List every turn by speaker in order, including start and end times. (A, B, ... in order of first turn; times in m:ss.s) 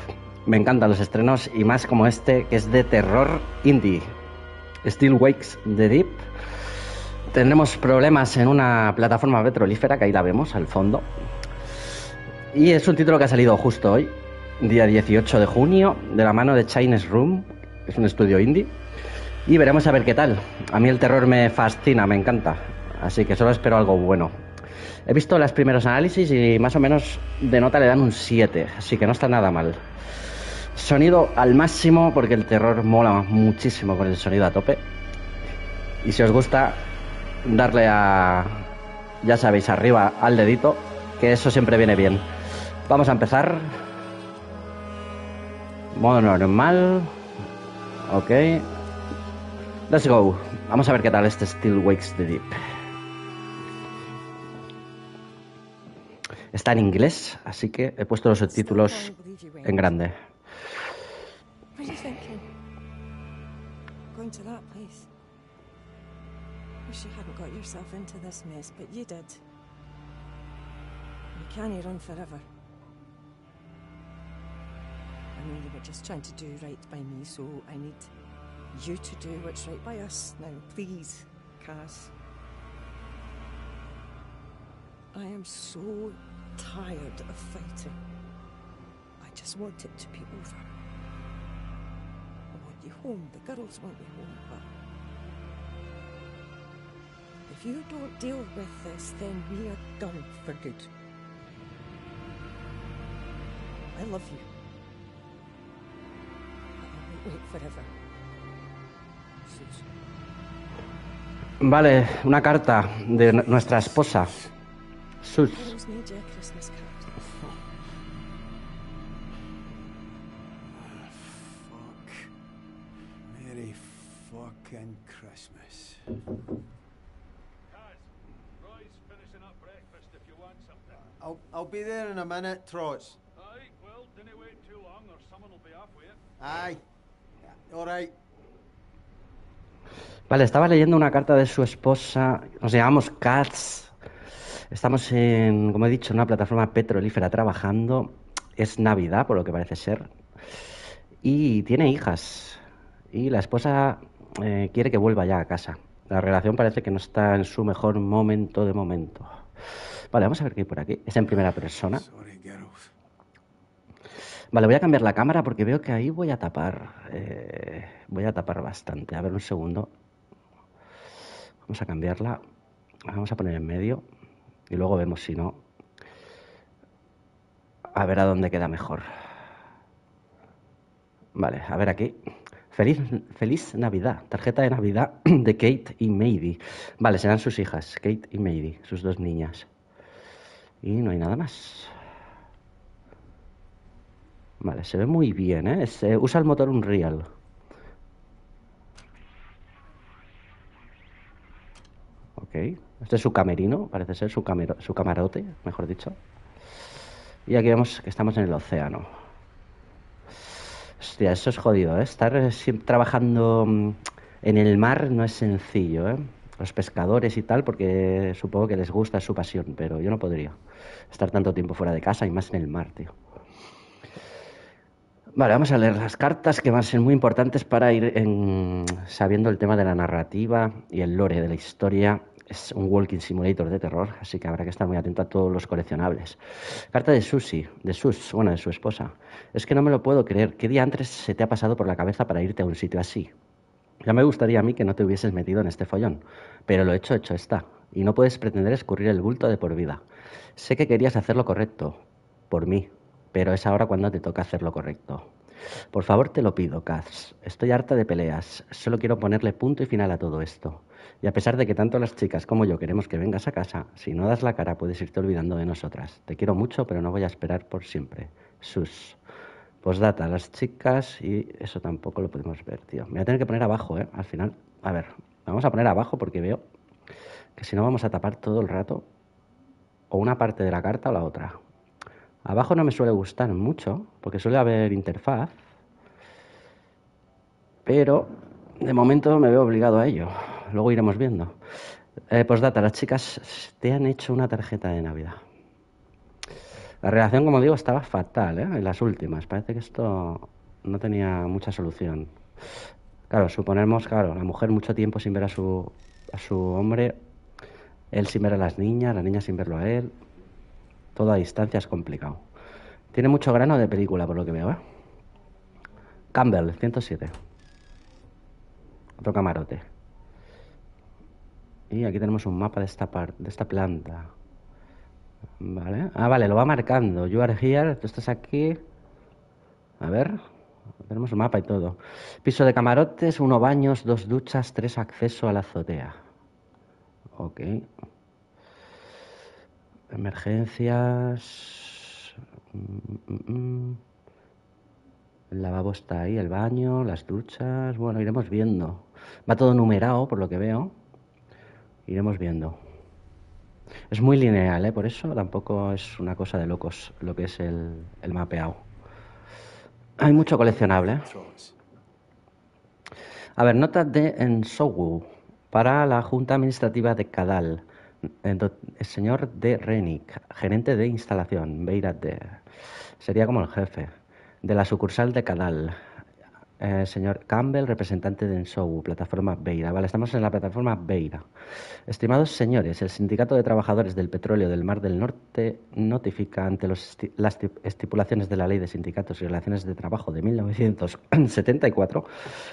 0:00.5-0:04.1 A
0:04.8-0:06.3 A
0:07.3-0:11.1 A
0:12.5-0:18.8 A
0:19.5-0:24.4 A
0:25.1-0:29.8 A
0:30.8-0:34.8 A
0:36.0-0:36.8 A
0:37.4-0:38.7 A
0:39.2-0:42.2 A
0:42.9-0:43.7 A
0:46.0-0:47.1 A
0:48.1-0:48.7 A
0:49.9-0:52.6 A
0:56.5-1:00.1 A
0:58.4-1:00.0 B
1:01.8-1:02.4 B
1:04.1-1:05.1 B
1:06.9-1:09.4 B
1:11.3-1:12.4 B
1:15.3-1:18.1 B
1:18.7-1:22.1 B
1:25.1-1:28.0 B
1:29.2-1:30.7 B
1:32.5-1:34.7 B
1:37.5-1:40.9 B
1:43.9-1:44.5 B
1:46.8-1:47.9 B
1:49.4-1:49.8 B
1:51.6-1:54.3 A
1:53.3-1:54.0 B
1:55.2-1:55.8 A
1:55.5-1:57.5 B
2:00.7-2:02.3 C
2:03.3-2:06.1 C
2:07.7-2:11.0 D
2:11.2-2:13.2 C
2:13.4-2:16.2 D
2:16.4-2:16.8 C
2:17.7-2:18.1 C
2:20.3-2:23.9 A
2:24.7-2:30.1 A
2:31.2-2:32.6 A
2:33.1-2:39.3 A
2:40.1-2:42.0 A
2:41.9-2:42.9 C
2:44.5-2:49.9 A
2:51.7-2:52.4 A
2:53.1-2:54.0 A
2:54.7-2:55.6 A
2:58.0-2:59.0 A
3:01.4-3:02.2 A
3:02.7-3:09.7 A
3:10.8-3:11.9 A
3:14.6-3:17.2 A
3:22.4-3:26.2 A
3:27.5-3:29.1 A
3:31.0-3:40.6 A
3:41.1-3:43.1 A
3:45.4-3:56.4 A
3:56.9-4:03.3 A
4:04.0-4:10.0 A
4:10.6-4:15.3 A
4:15.9-4:29.2 A
4:29.8-4:36.6 A
4:37.6-4:39.0 A
4:40.1-4:41.6 A
4:42.5-4:45.6 A
4:47.9-4:51.6 A
4:52.3-4:55.4 A
4:57.0-5:02.3 A
5:03.3-5:07.2 A
5:08.1-5:10.1 A
5:11.2-5:12.4 A
5:13.1-5:14.8 A
5:16.3-5:17.3 A
5:19.2-5:19.8 A
5:21.9-5:24.3 A
5:25.6-5:28.8 A
5:30.0-5:30.4 A
5:31.1-5:36.2 A
5:37.4-5:37.9 A
5:40.1-5:44.0 A
5:45.5-5:50.9 A
5:52.1-5:52.8 A
5:54.1-5:58.8 A
6:00.2-6:01.3 A
6:00.3-6:01.8 C
6:03.6-6:07.8 A
6:08.4-6:12.6 A
6:13.2-6:14.1 A
6:14.6-6:16.0 A
6:16.8-6:21.4 A
6:22.1-6:32.3 A